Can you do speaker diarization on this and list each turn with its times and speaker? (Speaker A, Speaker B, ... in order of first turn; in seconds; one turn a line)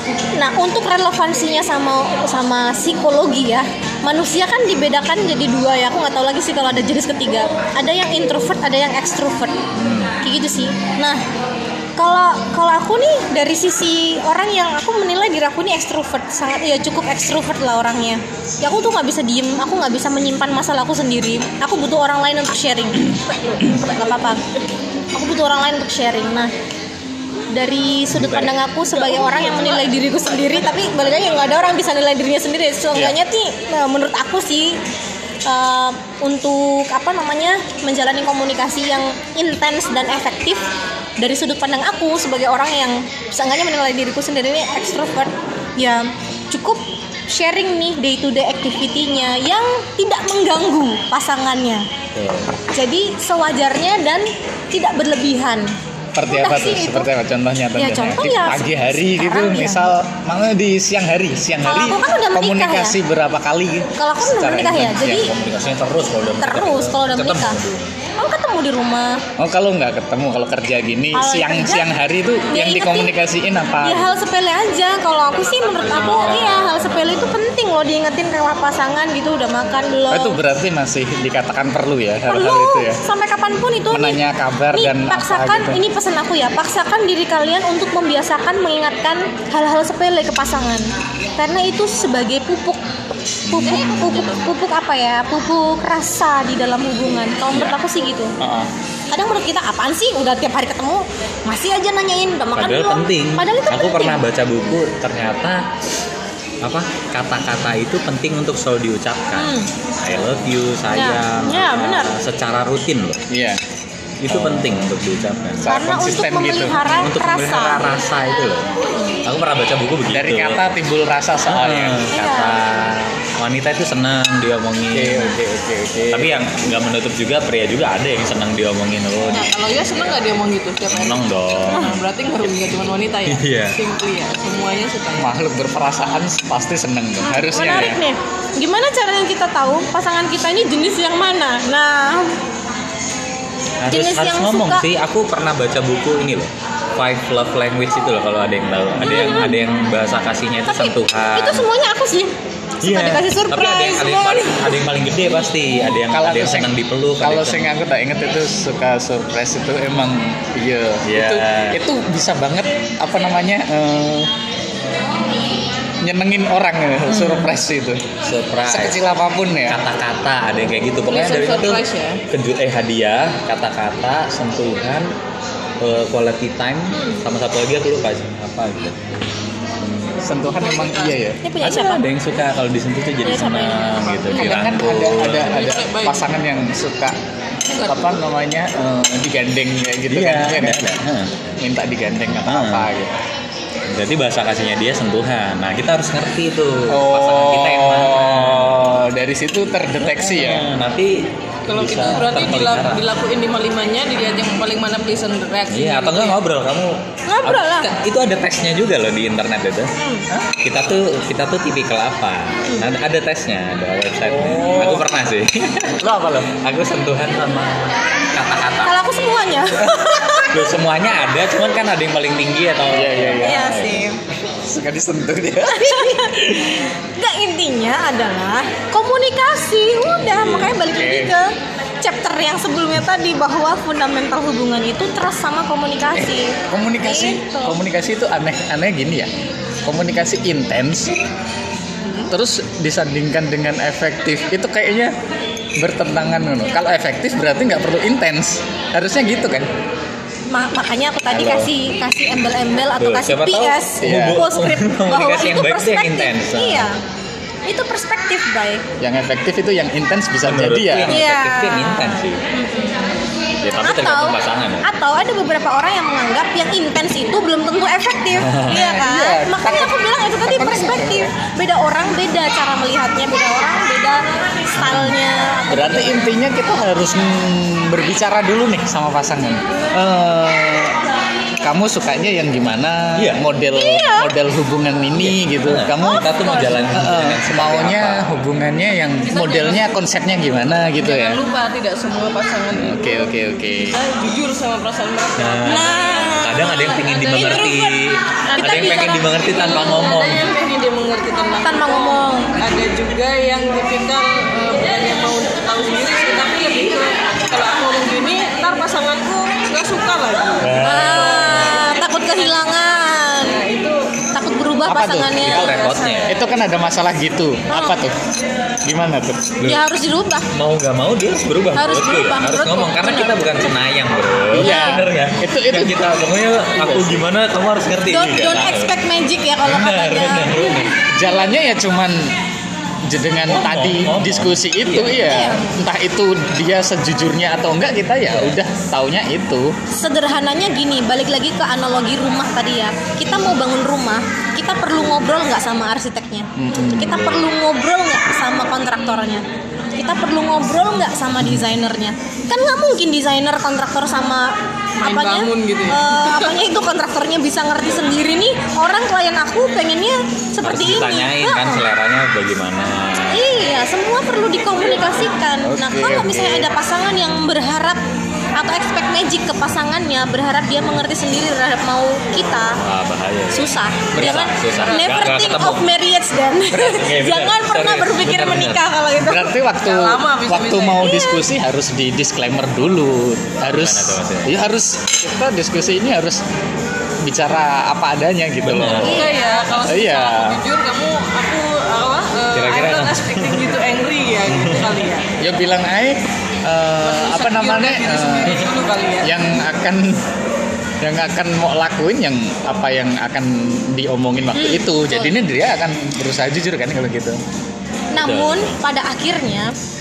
Speaker A: 0.3-9.6
Speaker B: 9.7-10.1
Speaker A: 10.2-11.2
Speaker A: 12.0-24.4
Speaker A: 25.1-26.5
Speaker A: 27.5-34.8
Speaker B: 28.1-28.6
Speaker C: 29.0-31.3
Speaker A: 35.5-40.6
Speaker A: 41.2-51.9
Speaker B: 52.1-52.5
Speaker A: 52.7-55.7
Speaker D: 56.1-65.3
Speaker A: 56.3-57.1
Speaker A: 57.8-59.9
Speaker A: 61.6-63.0
Speaker A: 64.0-65.3
Speaker B: 64.7-67.9
Speaker A: 66.4-67.6
Speaker A: 68.2-69.2
Speaker D: 69.4-74.2
Speaker A: 71.1-71.8
Speaker A: 72.5-73.1
Speaker A: 73.8-80.4
Speaker C: 75.5-76.5
Speaker B: 75.7-77.4
Speaker D: 80.1-83.0
Speaker A: 82.3-84.2
Speaker D: 83.9-85.8
Speaker A: 84.7-92.8
Speaker D: 93.5-93.8
Speaker B: 93.5-94.5
Speaker A: 93.5-98.3
Speaker C: 93.8-94.4
Speaker D: 98.4-98.7
Speaker A: 99.1-104.2
Speaker B: 102.5-105.6
Speaker B: 106.6-113.2
Speaker A: 109.3-109.7
Speaker A: 110.9-112.1
Speaker D: 113.3-113.6
Speaker B: 114.2-115.6
Speaker D: 114.3-114.9
Speaker D: 115.6-116.8
Speaker A: 115.6-117.8
Speaker B: 116.9-118.7
Speaker A: 118.9-119.2
Speaker B: 119.2-120.6
Speaker D: 120.1-122.0
Speaker B: 121.5-125.3
Speaker A: 122.1-122.6
Speaker D: 124.9-126.5
Speaker B: 126.1-133.8
Speaker C: 129.3-135.3
Speaker D: 135.2-138.0
Speaker A: 137.2-142.3
Speaker B: 143.8-151.7
Speaker A: 143.9-144.8
Speaker D: 148.9-149.4
Speaker A: 149.0-149.6
Speaker A: 150.7-154.8
Speaker B: 152.8-157.7
Speaker D: 156.1-164.3
Speaker B: 161.0-161.8
Speaker D: 166.0-168.0
Speaker B: 167.1-167.5
Speaker B: 168.2-168.9
Speaker D: 168.7-169.8
Speaker B: 169.7-175.1
Speaker C: 171.1-172.2
Speaker B: 175.8-179.0
Speaker A: 176.9-177.2
Speaker B: 179.8-180.2
Speaker D: 180.2-181.4
Speaker C: 180.5-181.2
Speaker A: 181.4-182.0
Speaker B: 181.6-185.6
Speaker A: 183.2-184.7
Speaker D: 184.3-187.2
Speaker C: 185.4-186.2
Speaker C: 187.7-188.2
Speaker D: 187.7-191.0
Speaker B: 190.1-191.4
Speaker D: 191.6-193.2
Speaker B: 192.4-192.9
Speaker B: 193.9-198.7
Speaker D: 196.9-200.7
Speaker B: 200.0-203.0
Speaker C: 201.7-206.4
Speaker B: 205.7-209.9
Speaker A: 207.3-207.9
Speaker A: 210.0-210.2
Speaker B: 210.5-218.9
Speaker D: 214.2-215.1
Speaker D: 216.0-216.6
Speaker A: 218.8-220.7
Speaker B: 220.5-224.0
Speaker D: 222.9-223.7
Speaker A: 223.4-224.2
Speaker D: 224.5-226.7
Speaker A: 225.6-231.5
Speaker B: 230.2-230.8
Speaker D: 230.9-231.3
Speaker A: 232.0-237.8
Speaker D: 236.2-239.3
Speaker D: 239.8-241.1
Speaker D: 242.3-245.1
Speaker D: 245.8-249.7
Speaker A: 250.5-257.0
Speaker D: 251.3-251.7
Speaker B: 253.0-256.9
Speaker D: 254.0-254.4
Speaker A: 257.7-258.8
Speaker D: 259.0-261.2
Speaker B: 260.4-262.4
Speaker A: 261.1-263.2
Speaker B: 263.6-264.9
Speaker A: 263.8-276.2
Speaker B: 268.3-268.8
Speaker D: 268.7-271.3
Speaker B: 274.8-275.1
Speaker D: 275.7-281.0
Speaker D: 281.6-286.2
Speaker B: 283.2-283.4
Speaker A: 283.7-284.3
Speaker B: 285.1-288.4
Speaker A: 286.0-286.8
Speaker D: 286.9-291.4
Speaker C: 289.3-289.8
Speaker C: 291.0-293.0
Speaker D: 292.7-293.9
Speaker C: 293.8-296.3
Speaker B: 295.4-300.4
Speaker A: 295.7-297.8
Speaker C: 296.9-297.8
Speaker A: 298.4-299.9
Speaker C: 299.4-311.7
Speaker A: 301.6-302.5
Speaker B: 310.6-311.8
Speaker A: 310.8-313.6
Speaker C: 313.4-314.1
Speaker A: 314.3-316.3
Speaker D: 314.9-315.5
Speaker B: 315.3-316.3
Speaker D: 316.3-318.1
Speaker A: 317.7-318.0
Speaker D: 318.8-319.6
Speaker A: 319.6-320.5
Speaker B: 320.5-328.9
Speaker A: 321.8-323.7
Speaker D: 324.5-326.2
Speaker A: 324.6-325.0
Speaker D: 326.7-327.3
Speaker A: 328.1-330.9
Speaker B: 329.6-330.9
Speaker D: 331.1-332.3
Speaker D: 333.1-339.7
Speaker B: 333.5-335.4
Speaker A: 335.2-335.7
Speaker B: 338.3-338.6
Speaker A: 339.9-349.4
Speaker D: 346.6-347.5
Speaker A: 350.0-361.8
Speaker C: 355.0-356.7
Speaker B: 360.6-363.5
Speaker A: 363.3-368.0
Speaker D: 365.6-366.7
Speaker A: 368.6-372.8
Speaker B: 372.8-375.8
Speaker A: 373.5-379.5
Speaker C: 374.8-375.2
Speaker B: 376.7-378.9
Speaker D: 379.2-386.4
Speaker C: 379.8-381.1
Speaker A: 381.0-381.4
Speaker B: 383.7-384.6
Speaker D: 387.2-389.3
Speaker B: 388.6-389.2
Speaker C: 388.9-395.3
Speaker A: 389.0-389.6
Speaker D: 389.8-390.6
Speaker B: 392.5-393.7
Speaker B: 394.4-394.9
Speaker D: 395.4-398.6
Speaker C: 397.0-399.3
Speaker D: 399.2-400.2
Speaker D: 401.0-407.4
Speaker A: 404.5-405.3
Speaker A: 408.1-409.7
Speaker B: 408.1-408.8